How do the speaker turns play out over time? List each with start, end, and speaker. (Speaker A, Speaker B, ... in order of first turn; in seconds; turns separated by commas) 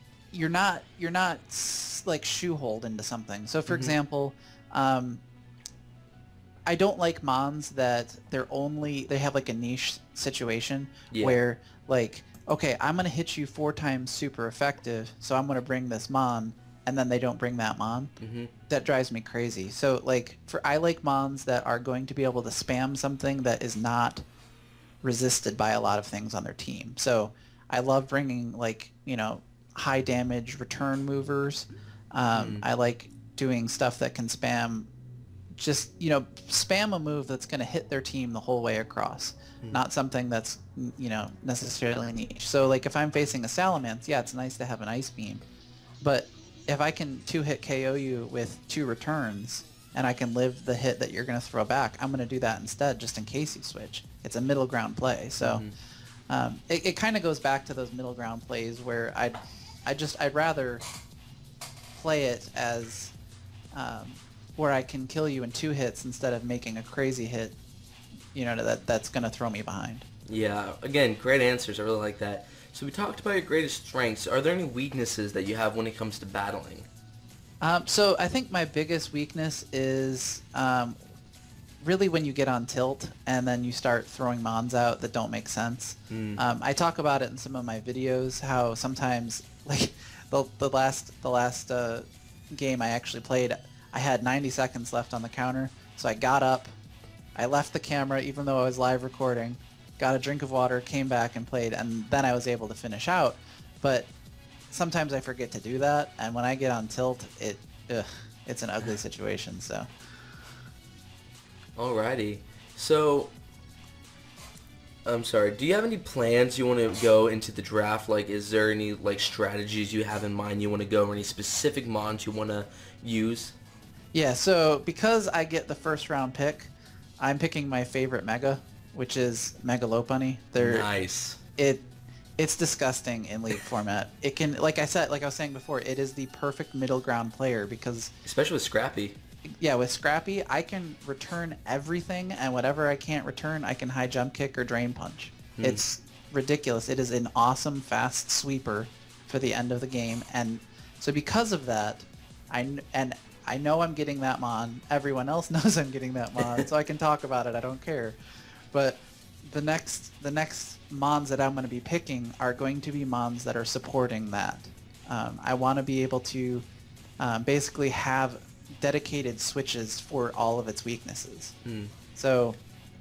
Speaker A: 0.3-5.2, Speaker B: 3.7-4.0, Speaker A: 6.7-18.1, Speaker B: 11.1-11.4, Speaker B: 18.2-18.5, Speaker A: 18.7-24.2, Speaker A: 25.0-34.9, Speaker B: 32.3-32.6, Speaker A: 35.5-45.4, Speaker A: 46.0-55.6, Speaker B: 55.4-55.7, Speaker A: 56.3-60.8, Speaker A: 61.9-63.1, Speaker A: 63.7-67.5, Speaker A: 68.3-70.0, Speaker B: 70.3-76.9, Speaker A: 77.6-81.0, Speaker A: 81.8-96.7, Speaker B: 86.1-86.4, Speaker A: 97.3-104.1, Speaker A: 104.7-109.9, Speaker B: 111.8-113.3, Speaker B: 115.0-123.5, Speaker A: 124.1-130.9, Speaker B: 130.6-131.4, Speaker A: 131.6-131.8, Speaker A: 132.4-138.1, Speaker B: 138.2-139.2, Speaker A: 139.6-158.2, Speaker B: 145.6-145.8, Speaker A: 158.7-166.6, Speaker A: 167.2-171.5, Speaker B: 171.6-171.9, Speaker A: 172.1-172.6